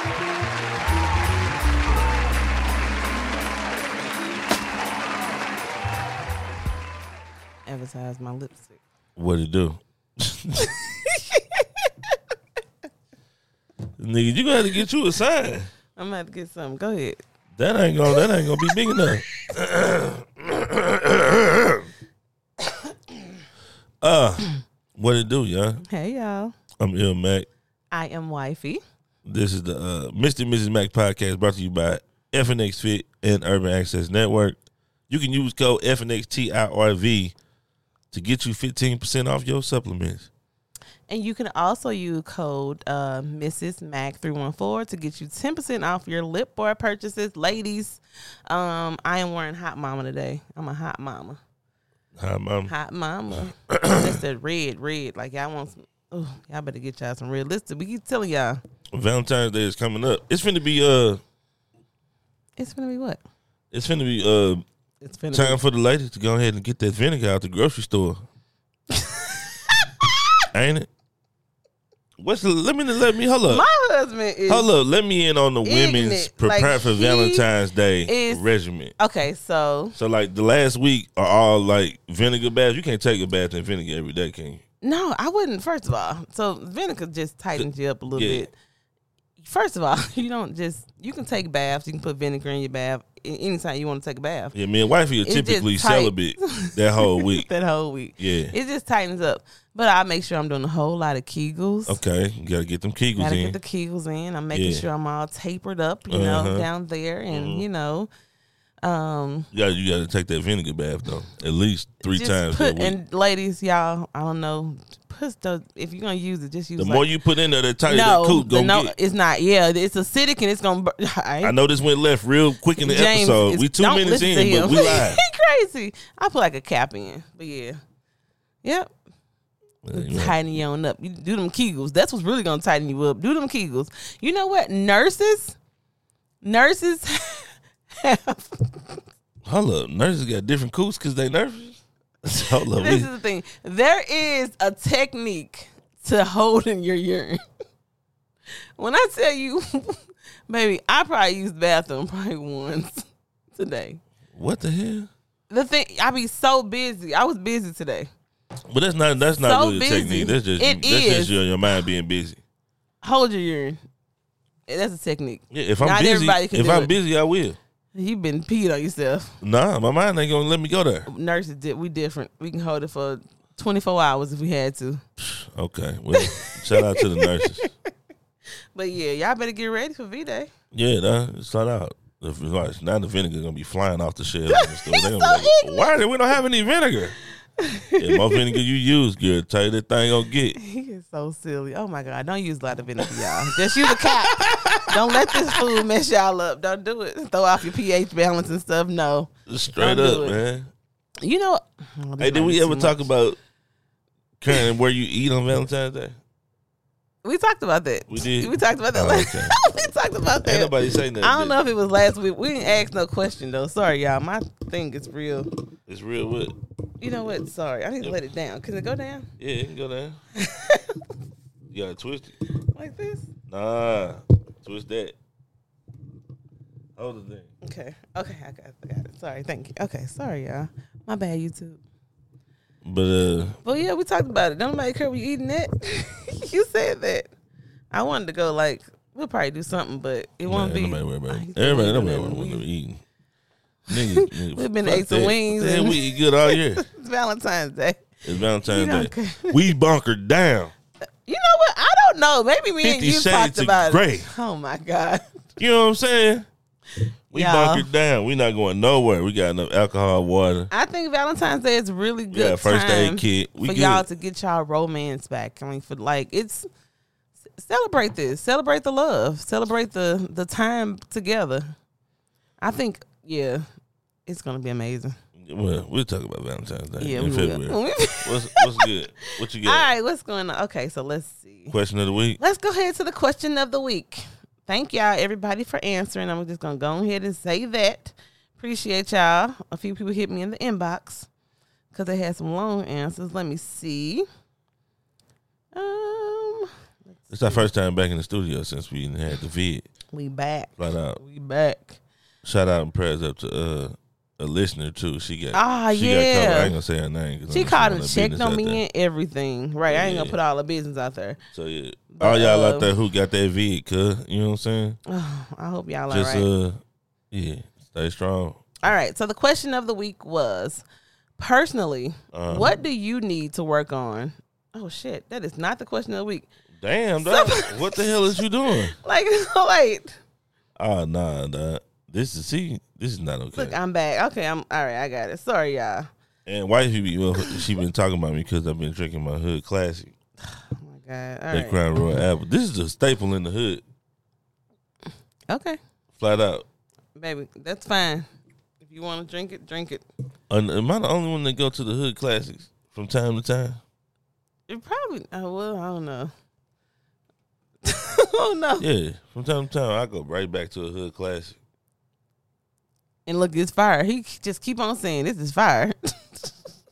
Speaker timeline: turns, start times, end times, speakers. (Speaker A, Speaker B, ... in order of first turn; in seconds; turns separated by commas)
Speaker A: 7.7-8.8, Speaker B: 9.2-10.7, Speaker A: 11.1-12.2, Speaker B: 14.0-15.7, Speaker A: 16.0-17.2, Speaker B: 17.6-21.9, Speaker A: 18.2-18.7, Speaker B: 24.0-25.8, Speaker A: 25.8-26.6, Speaker B: 26.8-27.5, Speaker A: 27.9-28.8, Speaker B: 29.2-34.6, Speaker B: 35.1-37.3, Speaker B: 38.1-40.3, Speaker A: 41.1-51.4, Speaker B: 52.2-52.7, Speaker A: 52.7-58.6, Speaker B: 53.7-54.2, Speaker B: 58.9-61.2, Speaker A: 62.6-63.2, Speaker B: 63.7-64.6, Speaker A: 65.0-65.6, Speaker B: 65.3-68.2, Speaker A: 68.9-70.2, Speaker B: 70.5-70.9, Speaker B: 72.2-73.7, Speaker A: 73.5-74.7, Speaker B: 74.5-79.0, Speaker A: 75.6-77.5, Speaker A: 78.1-78.4, Speaker A: 79.0-80.0, Speaker B: 80.0-84.6, Speaker A: 84.8-88.5, Speaker B: 87.6-88.5, Speaker A: 89.4-94.5, Speaker B: 94.5-97.5, Speaker A: 95.2-102.0, Speaker B: 98.2-98.5, Speaker B: 101.9-103.6, Speaker A: 103.2-108.1, Speaker B: 104.5-104.8, Speaker B: 106.1-106.7, Speaker B: 107.3-107.7, Speaker A: 108.8-109.5, Speaker B: 109.5-113.0, Speaker A: 112.1-117.1, Speaker B: 116.8-118.9, Speaker A: 117.9-121.5, Speaker B: 121.4-125.2, Speaker A: 122.8-127.8, Speaker A: 128.6-128.9, Speaker B: 129.8-130.3, Speaker A: 129.9-135.6, Speaker A: 136.4-139.0, Speaker B: 139.4-143.1, Speaker A: 142.3-147.4, Speaker A: 148.8-154.0, Speaker B: 154.3-155.1, Speaker A: 155.5-158.1, Speaker B: 158.7-162.4, Speaker A: 159.4-161.4, Speaker A: 163.0-163.8, Speaker A: 164.7-166.9, Speaker B: 165.5-167.6, Speaker A: 167.9-169.4, Speaker B: 169.4-171.1, Speaker A: 171.1-175.0, Speaker B: 175.2-177.7, Speaker A: 176.2-177.7, Speaker A: 178.8-180.5, Speaker B: 180.7-187.2, Speaker A: 184.5-185.9, Speaker A: 187.6-188.5, Speaker B: 188.0-190.6, Speaker A: 190.6-200.4, Speaker B: 193.0-195.8, Speaker B: 199.5-200.7, Speaker A: 201.2-203.1, Speaker B: 202.2-203.4, Speaker B: 204.4-206.2, Speaker A: 207.2-215.5, Speaker B: 208.1-209.6, Speaker B: 210.4-211.6, Speaker B: 215.9-216.6, Speaker A: 217.0-219.3, Speaker B: 219.4-220.2, Speaker A: 220.4-221.0, Speaker B: 221.7-222.4, Speaker A: 222.7-223.3, Speaker B: 223.5-225.2, Speaker B: 227.0-227.5, Speaker A: 227.6-231.8, Speaker B: 232.8-233.6, Speaker A: 233.6-237.3, Speaker A: 237.9-242.6, Speaker B: 240.4-243.0, Speaker B: 243.9-246.8, Speaker A: 243.9-248.1, Speaker B: 248.2-250.7, Speaker A: 248.6-249.6, Speaker A: 251.3-255.2, Speaker B: 252.8-254.3, Speaker B: 255.6-256.5, Speaker B: 257.3-260.7, Speaker A: 257.3-257.9, Speaker A: 260.7-266.7, Speaker B: 262.3-264.1, Speaker A: 267.6-271.7, Speaker A: 272.6-273.6, Speaker A: 274.3-275.2, Speaker B: 275.4-279.9, Speaker A: 277.0-278.9, Speaker A: 279.6-281.7, Speaker B: 281.7-282.4, Speaker A: 282.4-291.3, Speaker A: 291.9-294.2, Speaker A: 295.7-297.6, Speaker B: 297.3-299.9, Speaker A: 300.1-302.0, Speaker B: 300.8-301.2, Speaker B: 302.4-308.8, Speaker A: 305.5-306.7, Speaker A: 307.5-311.4, Speaker B: 309.9-310.4, Speaker B: 311.5-315.0, Speaker A: 312.1-312.9, Speaker A: 315.1-316.5, Speaker B: 316.1-316.8, Speaker B: 317.3-318.8, Speaker A: 318.8-320.8, Speaker A: 321.4-326.5, Speaker B: 322.3-322.8, Speaker B: 326.8-329.0, Speaker A: 327.2-328.1, Speaker A: 328.9-330.2, Speaker B: 330.8-333.8, Speaker A: 333.5-336.1, Speaker B: 336.4-340.1, Speaker A: 340.5-341.8, Speaker B: 341.5-343.8, Speaker A: 345.5-345.8, Speaker B: 346.1-346.6, Speaker A: 347.1-348.3, Speaker A: 348.8-350.0, Speaker B: 350.5-353.8, Speaker A: 354.7-356.3, Speaker A: 357.8-358.8, Speaker B: 358.8-361.6, Speaker A: 363.2-366.5